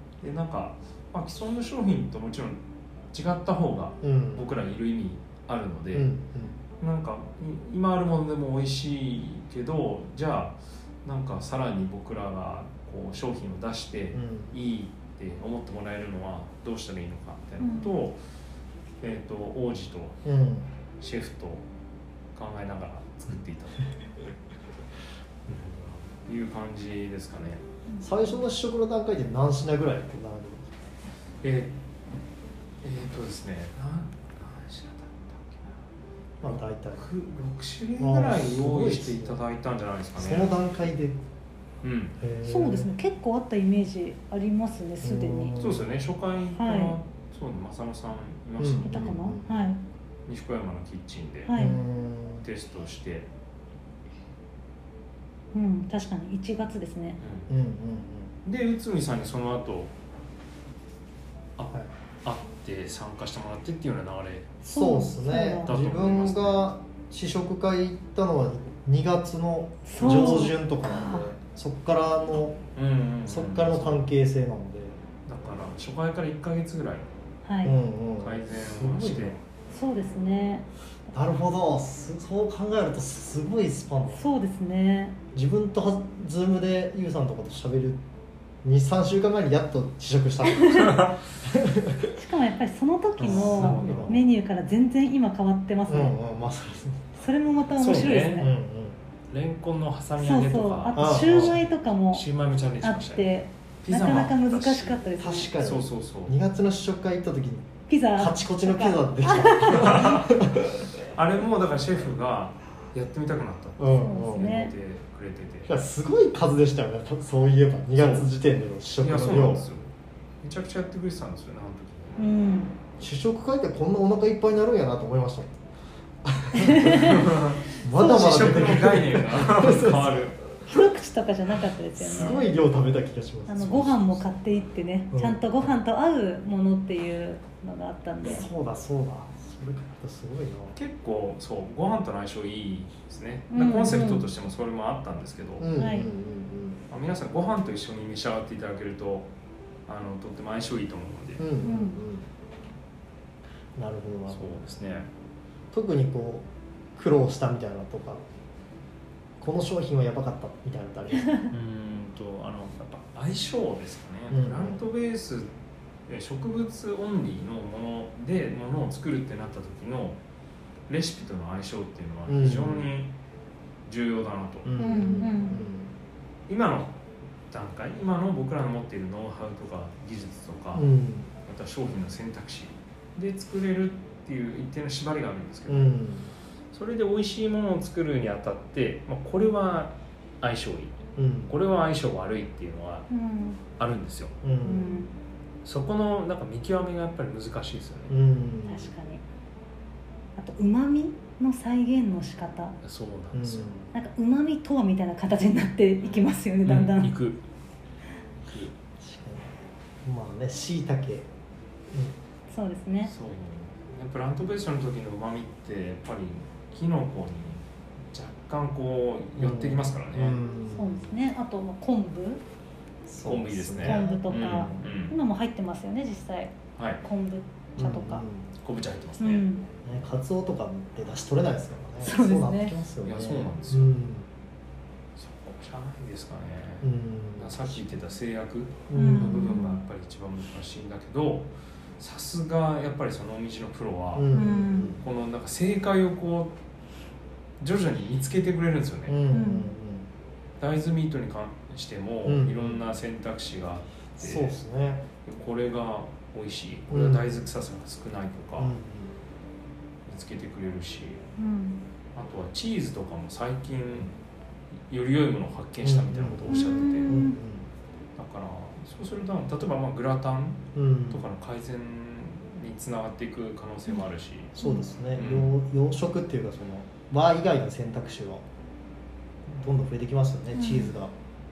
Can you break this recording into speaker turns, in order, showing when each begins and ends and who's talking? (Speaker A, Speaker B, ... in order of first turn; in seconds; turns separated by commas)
Speaker A: 0.2-2.6, Speaker A: 3.1-6.1, Speaker B: 4.0-4.5, Speaker B: 5.9-6.6, Speaker A: 6.8-18.2, Speaker B: 14.1-14.5, Speaker C: 17.6-17.9, Speaker A: 19.0-20.2, Speaker B: 20.2-20.7, Speaker A: 21.0-21.6, Speaker A: 22.3-23.9, Speaker A: 25.4-27.6, Speaker B: 28.0-30.7, Speaker A: 31.4-31.7, Speaker A: 32.8-35.8, Speaker B: 36.4-37.0, Speaker A: 36.4-40.7, Speaker B: 38.0-39.4, Speaker B: 40.2-41.2, Speaker A: 41.8-42.1, Speaker B: 42.2-42.9, Speaker C: 42.4-45.5, Speaker B: 45.0-45.9, Speaker A: 45.6-49.2, Speaker C: 46.5-47.0, Speaker B: 48.6-49.6, Speaker C: 48.8-49.8, Speaker A: 50.3-51.5, Speaker C: 51.5-51.8, Speaker B: 51.5-52.5, Speaker A: 52.4-53.3, Speaker C: 55.5-57.2, Speaker A: 57.2-57.5, Speaker B: 57.5-58.3, Speaker A: 58.4-59.9, Speaker A: 61.6-64.5, Speaker C: 64.6-65.7, Speaker B: 64.6-72.6, Speaker A: 65.7-66.7, Speaker C: 69.9-71.3, Speaker A: 70.0-70.3, Speaker A: 72.7-74.1, Speaker B: 73.3-75.0, Speaker A: 75.2-77.1, Speaker C: 77.4-77.8, Speaker B: 77.6-79.4, Speaker A: 78.2-79.4, Speaker C: 79.7-80.7, Speaker B: 81.1-84.2, Speaker C: 84.1-85.2, Speaker B: 85.3-88.0, Speaker B: 88.6-92.1, Speaker C: 90.6-90.9, Speaker A: 90.8-91.2, Speaker C: 92.1-96.2, Speaker B: 93.2-94.2, Speaker A: 93.2-94.2, Speaker B: 95.9-97.2, Speaker C: 97.2-98.5, Speaker A: 97.8-98.5, Speaker B: 98.3-99.0, Speaker A: 99.3-103.3, Speaker C: 100.2-102.2, Speaker B: 100.9-101.6, Speaker C: 102.8-105.5, Speaker A: 103.8-105.0, Speaker B: 105.2-110.9, Speaker A: 105.6-106.3, Speaker C: 107.9-110.1, Speaker A: 109.7-110.4, Speaker A: 111.0-115.7, Speaker B: 113.8-114.5, Speaker C: 113.9-114.7, Speaker B: 115.6-119.7, Speaker A: 118.0-118.3, Speaker A: 118.9-119.9, Speaker A: 120.4-122.3, Speaker C: 122.2-122.7, Speaker B: 123.0-125.6, Speaker B: 126.2-127.2, Speaker C: 126.5-127.2, Speaker A: 126.9-130.4, Speaker B: 127.8-130.2, Speaker C: 128.0-128.4, Speaker C: 130.7-132.5, Speaker B: 132.0-134.2, Speaker C: 133.5-138.5, Speaker B: 135.1-135.7, Speaker B: 138.2-140.8, Speaker A: 140.7-145.7, Speaker C: 143.5-144.2, Speaker B: 145.6-146.8, Speaker C: 145.7-146.1, Speaker A: 146.9-149.3, Speaker A: 149.9-151.5, Speaker B: 151.4-152.3, Speaker C: 151.6-152.0, Speaker B: 153.8-154.6, Speaker A: 154.3-155.1, Speaker B: 155.7-158.2, Speaker B: 159.4-161.4, Speaker A: 161.5-165.5, Speaker B: 164.3-164.8, Speaker A: 166.1-170.2, Speaker A: 170.9-173.1, Speaker B: 172.3-172.9, Speaker A: 173.8-174.7, Speaker B: 174.6-175.9, Speaker C: 174.8-175.6, Speaker A: 176.5-177.0, Speaker A: 177.5-180.9, Speaker B: 180.7-181.3, Speaker A: 181.4-186.0, Speaker B: 185.7-186.3, Speaker A: 186.7-193.1, Speaker B: 191.2-191.5, Speaker C: 193.1-193.6, Speaker A: 193.8-194.3, Speaker B: 194.4-195.1, Speaker C: 194.6-195.1, Speaker A: 195.6-198.2, Speaker B: 198.1-198.9, Speaker C: 198.7-199.2, Speaker C: 200.3-202.7, Speaker A: 202.8-203.7, Speaker B: 203.3-203.9, Speaker C: 203.9-207.1, Speaker A: 206.0-207.4, Speaker B: 209.0-211.3, Speaker B: 211.9-212.2, Speaker C: 212.5-213.1, Speaker A: 213.0-220.4, Speaker B: 219.4-221.1, Speaker C: 220.7-222.4, Speaker B: 223.1-224.9, Speaker A: 223.2-225.1, Speaker C: 223.8-228.2, Speaker A: 226.8-227.0, Speaker B: 227.8-228.5, Speaker A: 228.6-229.4, Speaker C: 229.2-229.7, Speaker B: 229.8-234.3, Speaker C: 232.0-232.8, Speaker A: 233.0-233.9, Speaker A: 235.2-244.3, Speaker B: 236.8-237.8, Speaker B: 238.9-239.6, Speaker C: 238.9-239.8, Speaker B: 244.1-245.0, Speaker C: 244.3-244.9, Speaker A: 244.9-246.5, Speaker A: 247.6-249.2, Speaker B: 249.1-250.1, Speaker C: 249.3-249.7, Speaker A: 250.6-254.5, Speaker B: 252.2-252.8, Speaker B: 254.2-255.1, Speaker A: 255.2-258.7, Speaker B: 256.9-257.4, Speaker B: 258.6-259.1, Speaker A: 260.1-261.2, Speaker C: 261.4-261.8, Speaker A: 262.1-264.1, Speaker A: 264.9-267.2, Speaker B: 265.8-267.7, Speaker C: 266.5-267.4, Speaker A: 268.1-274.5, Speaker B: 270.7-271.2, Speaker B: 274.6-278.4, Speaker C: 274.6-274.9, Speaker A: 275.1-275.5, Speaker B: 279.5-281.1, Speaker C: 280.5-280.9